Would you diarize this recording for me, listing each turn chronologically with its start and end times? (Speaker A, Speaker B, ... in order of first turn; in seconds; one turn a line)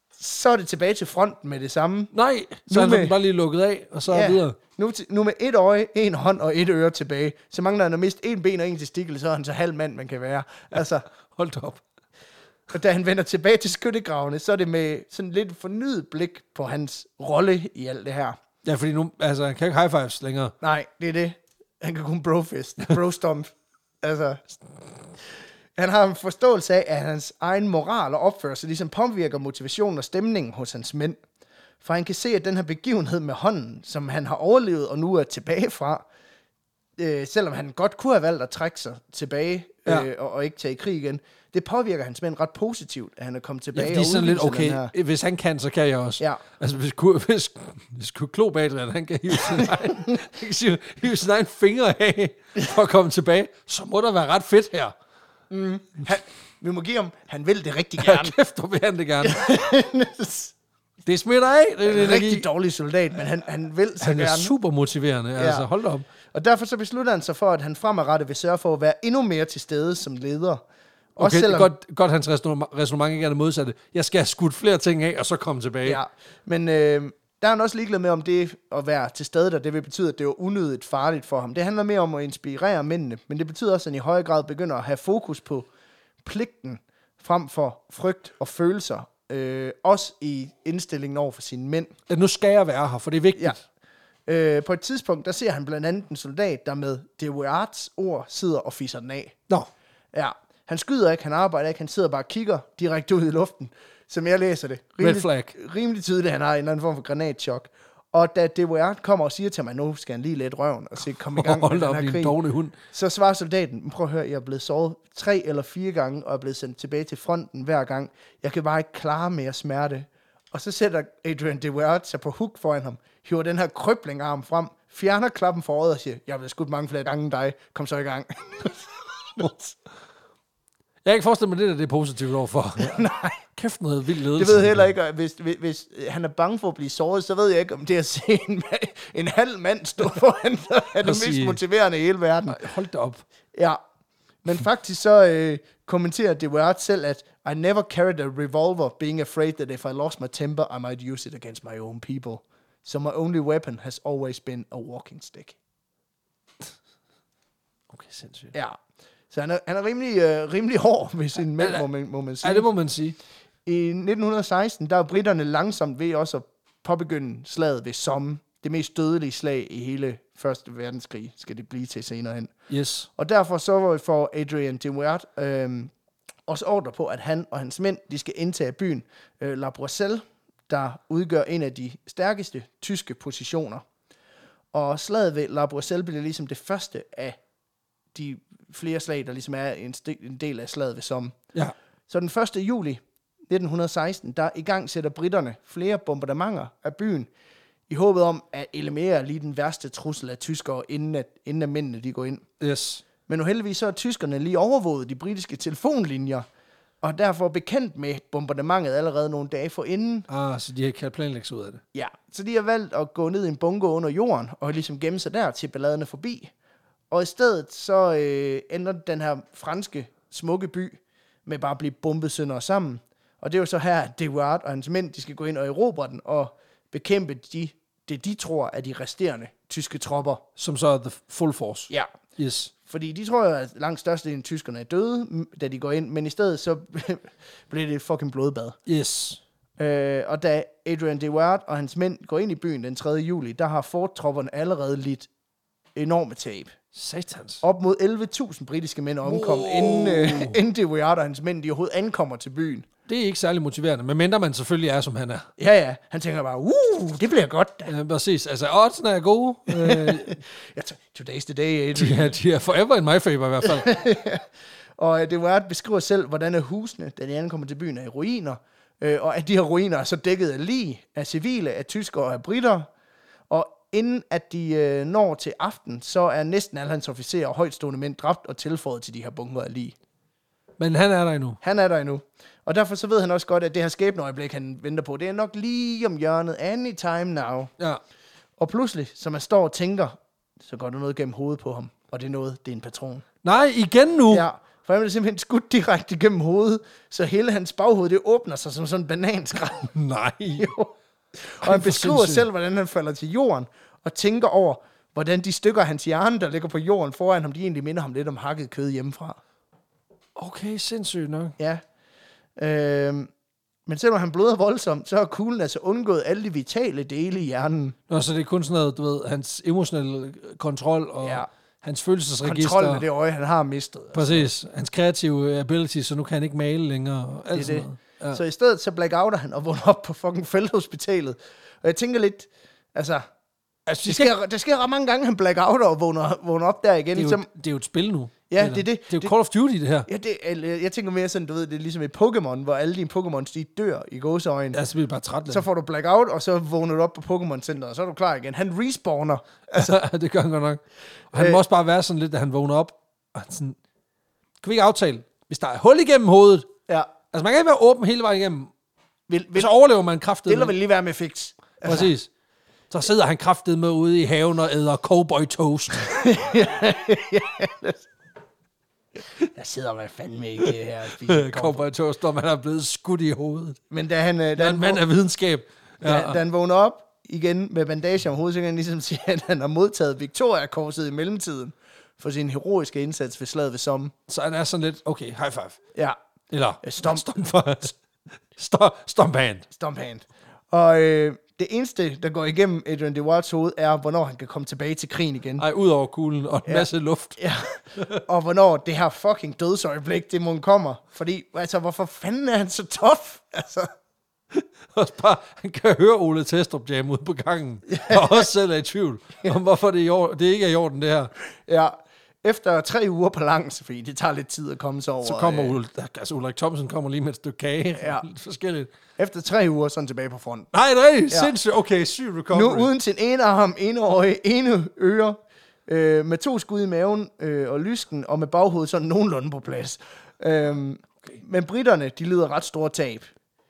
Speaker A: 0.2-2.1
Speaker B: 2.1-4.6
Speaker A: 2.7-3.1
Speaker A: 4.1-11.1
Speaker B: 10.8-11.8
Speaker A: 12.7-18.4
Speaker B: 18.6-20.5
Speaker A: 20.6-24.6
Speaker A: 25.8-31.2
Speaker A: 31.8-36.0
Speaker A: 37.0-44.9
Speaker B: 43.7-54.9
Speaker A: 49.5-50.2
Speaker A: 55.5-58.4
Speaker B: 58.0-59.5
Speaker A: 59.2-60.5
Speaker B: 61.0-62.5
Speaker A: 61.9-64.5
Speaker B: 64.0-66.1
Speaker A: 65.4-65.7
Speaker A: 66.3-70.6
Speaker A: 71.2-71.7
Speaker B: 71.2-76.0
Speaker A: 75.8-85.7
Speaker A: 86.2-91.9
Speaker B: 92.1-93.6
Speaker A: 94.3-99.4
Speaker A: 100.1-112.4
Speaker B: 105.0-105.5
Speaker B: 111.3-112.8
Speaker A: 112.9-129.8
Speaker B: 131.0-134.9
Speaker A: 132.8-133.4
Speaker A: 134.3-142.6
Speaker B: 141.0-141.6
Speaker B: 142.5-143.2
Speaker A: 143.5-143.8
Speaker A: 144.4-155.6
Speaker B: 157.9-158.5
Speaker A: 159.3-162.7
Speaker B: 161.6-161.8
Speaker B: 162.4-163.2
Speaker A: 163.7-172.5
Speaker B: 172.7-173.1
Speaker A: 173.2-175.9
Speaker A: 176.5-183.8
Speaker A: 184.7-187.4
Speaker A: 188.1-191.4
Speaker A: 192.1-197.3
Speaker A: 197.9-202.4
Speaker B: 202.6-203.0
Speaker A: 203.2-206.5
Speaker A: 207.0-210.3
Speaker B: 210.3-211.8
Speaker A: 211.9-216.5
Speaker A: 217.1-230.4
Speaker B: 230.6-232.7
Speaker A: 232.9-238.8
Speaker B: 238.9-239.4
Speaker A: 239.8-245.3
Speaker A: 246.0-246.7
Speaker B: 246.9-247.6
Speaker A: 247.6-252.9
Speaker B: 249.2-250.6
Speaker B: 253.1-255.5
Speaker A: 255.6-257.9
Speaker B: 257.9-260.4
Speaker A: 259.7-262.4
Speaker B: 261.9-263.9
Speaker A: 263.6-272.9
Speaker A: 273.5-280.0
Speaker B: 280.8-281.6
Speaker A: 281.6-287.7
Speaker A: 288.6-293.2
Speaker B: 293.4-294.4
Speaker A: 294.3-299.9
Speaker B: 299.9-300.7
Speaker A: 300.6-309.4
Speaker B: 301.6-302.5
Speaker B: 310.4-311.6
Speaker A: 312.6-313.3
Speaker A: 313.9-318.0
Speaker B: 318.1-323.1
Speaker A: 321.2-321.5
Speaker A: 322.4-324.5
Speaker B: 324.1-328.4
Speaker A: 327.5-333.3
Speaker B: 333.9-334.3
Speaker A: 334.1-337.5
Speaker B: 337.1-340.1
Speaker A: 338.5-339.3
Speaker A: 340.1-344.8
Speaker B: 344.7-345.6
Speaker A: 345.5-349.9
Speaker B: 349.7-350.8
Speaker B: 351.3-353.8
Speaker A: 351.4-351.6
Speaker B: 354.6-356.7
Speaker B: 357.3-358.7
Speaker A: 359.3-359.7
Speaker B: 359.6-360.8
Speaker A: 360.5-362.1
Speaker B: 361.8-362.3
Speaker B: 362.9-366.2
Speaker A: 366.0-368.1
Speaker A: 369.4-371.9
Speaker B: 370.6-373.8
Speaker A: 373.9-375.0
Speaker B: 374.6-376.4
Speaker A: 376.0-384.1
Speaker B: 384.3-385.8
Speaker B: 386.5-387.9
Speaker A: 386.8-387.3
Speaker B: 388.5-389.7
Speaker A: 389.7-395.6
Speaker B: 395.6-397.4
Speaker A: 396.7-403.9
Speaker B: 398.0-398.2
Speaker B: 404.5-411.3
Speaker A: 407.9-408.5
Speaker A: 411.7-415.8
Speaker B: 415.2-418.9
Speaker A: 418.0-418.2
Speaker A: 419.2-420.7
Speaker B: 420.7-422.9
Speaker A: 422.5-433.3